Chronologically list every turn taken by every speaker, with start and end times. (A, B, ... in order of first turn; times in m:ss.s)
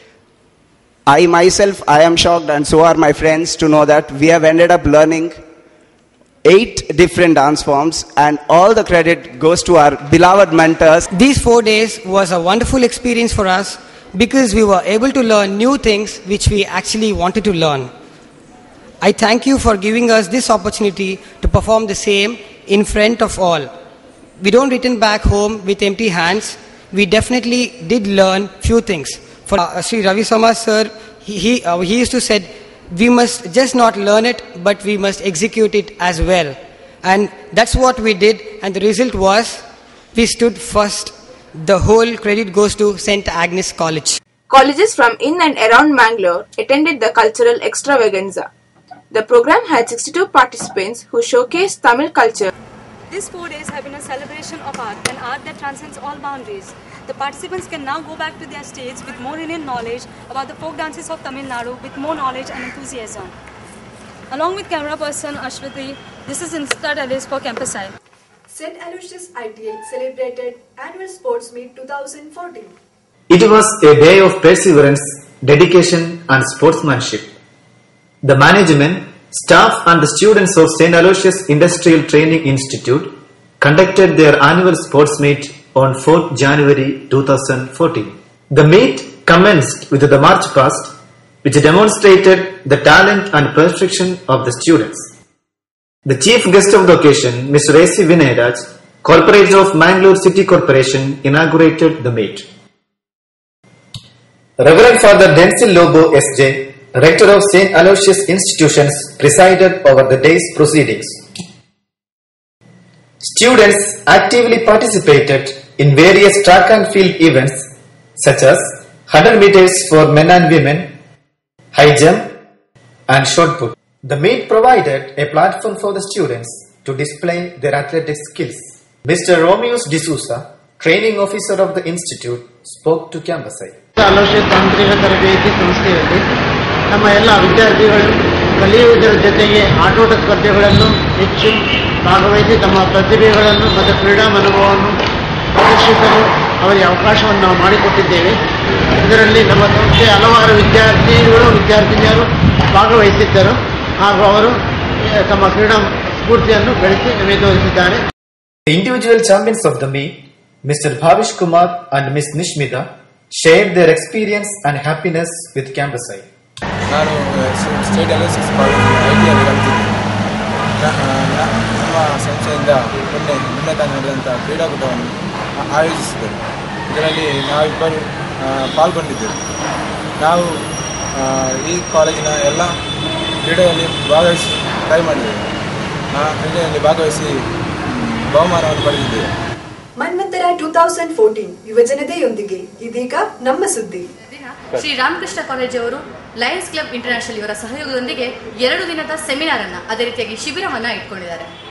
0:01.1-0:05.4 A
0:06.4-0:11.0 A
0:11.1-0:17.9 B
0:19.0-0:23.7 B
0:24.4-0:39.6 B
0:40.1-0:44.2 B
0:44.5-0:48.5 C
0:49.1-0:52.5 C
0:53.1-1:03.3 D
1:04.3-1:07.9 D
1:08.5-1:12.7 E
1:13.3-1:17.3 F
1:18.2-1:35.1 F
1:36.1-1:42.5 F
1:44.6-1:51.2 F
1:53.2-2:00.9 F
2:01.7-2:02.2 F
2:03.1-2:13.8 F
2:14.0-2:16.2 G
2:16.9-2:25.0 G
2:25.6-2:28.4 G
2:29.0-2:34.6 G
2:35.3-2:38.0 G
2:38.7-2:46.3 F
2:46.9-2:50.0 H
2:50.8-2:55.2 H
2:55.7-2:59.4 H
3:00.2-3:00.5 H
3:01.2-3:02.7 H
3:03.4-3:05.4 H
3:06.1-3:07.4 H
3:08.3-3:09.3 H
3:10.0-3:14.1 E
3:14.3-3:21.5 I